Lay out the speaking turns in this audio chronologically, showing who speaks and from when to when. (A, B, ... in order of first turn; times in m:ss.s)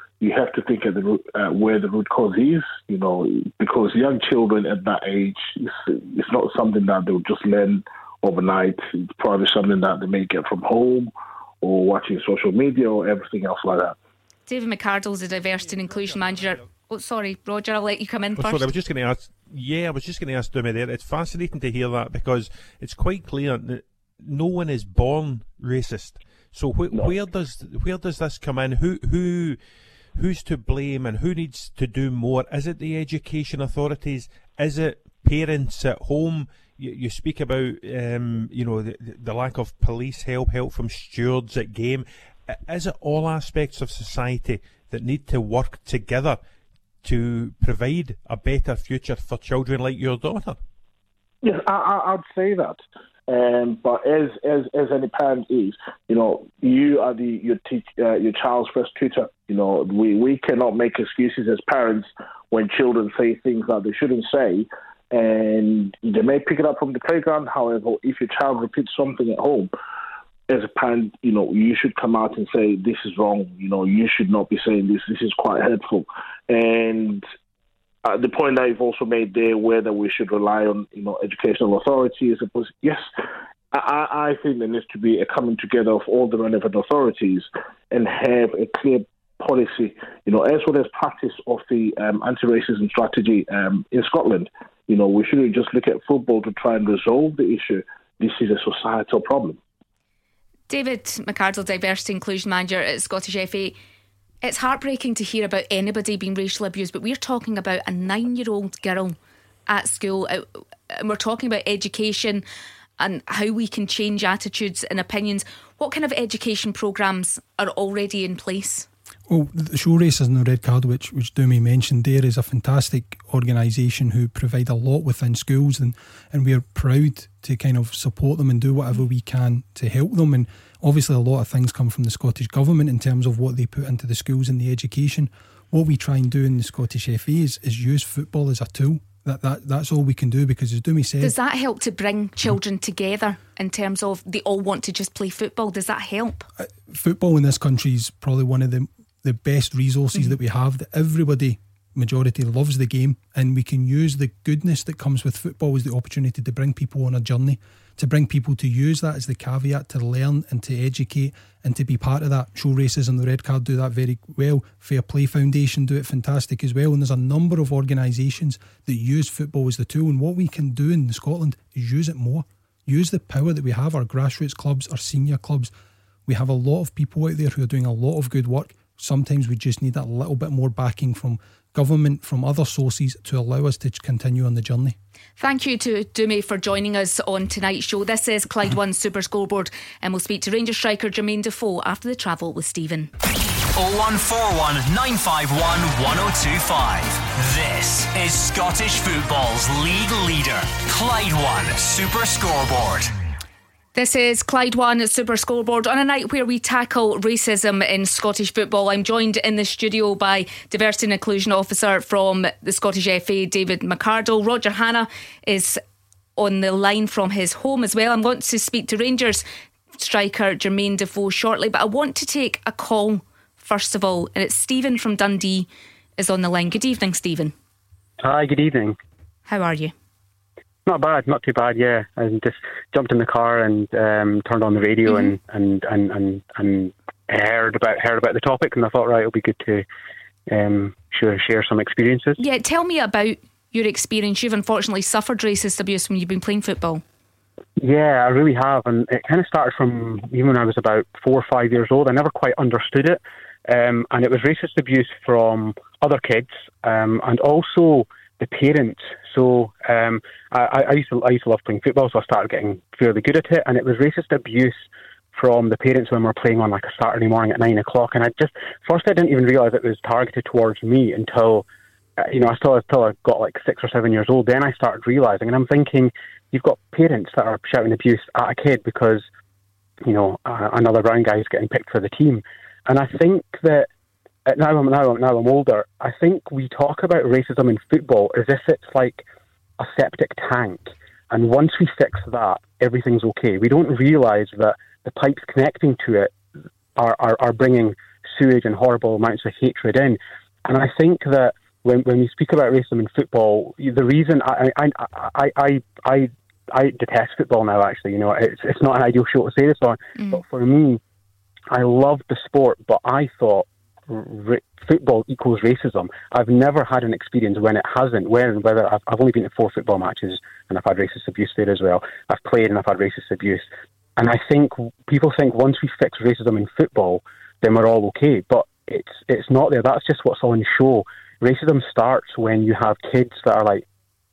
0:00.2-0:11.1 A
0:11.6-0:14.0 A
0:14.5-0:18.7 B
0:18.4-0:29.6 C
0:30.2-0:46.4 C
0:47.0-0:50.6 C
0:51.4-1:09.7 A
1:10.5-1:17.2 A
1:18.0-1:23.0 A
1:23.7-1:39.6 A
1:40.7-1:43.8 B
1:44.4-1:49.2 B
1:49.7-1:52.4 B
1:53.0-1:58.9 B
1:59.3-2:21.4 D
2:21.2-2:26.5 B
2:26.6-2:55.7 D
2:56.3-3:05.0 D
3:05.4-3:13.1 B
3:13.8-3:23.1 E
3:24.0-3:35.8 B
3:36.4-3:39.5 B
3:40.0-3:45.7 B
3:46.2-3:47.5 B
3:48.2-3:49.0 F
3:49.5-3:49.9 B
3:50.9-3:59.8 F
3:55.1-3:55.3 B
4:00.5-4:02.4 F
4:02.4-4:07.0 B
4:07.8-4:31.6 F
4:32.2-4:39.3 F
4:40.0-4:43.9 F
4:44.5-4:49.2 F
4:49.8-4:56.4 F
4:57.0-5:11.0 F
5:10.2-5:10.4 B
5:11.7-5:33.8 F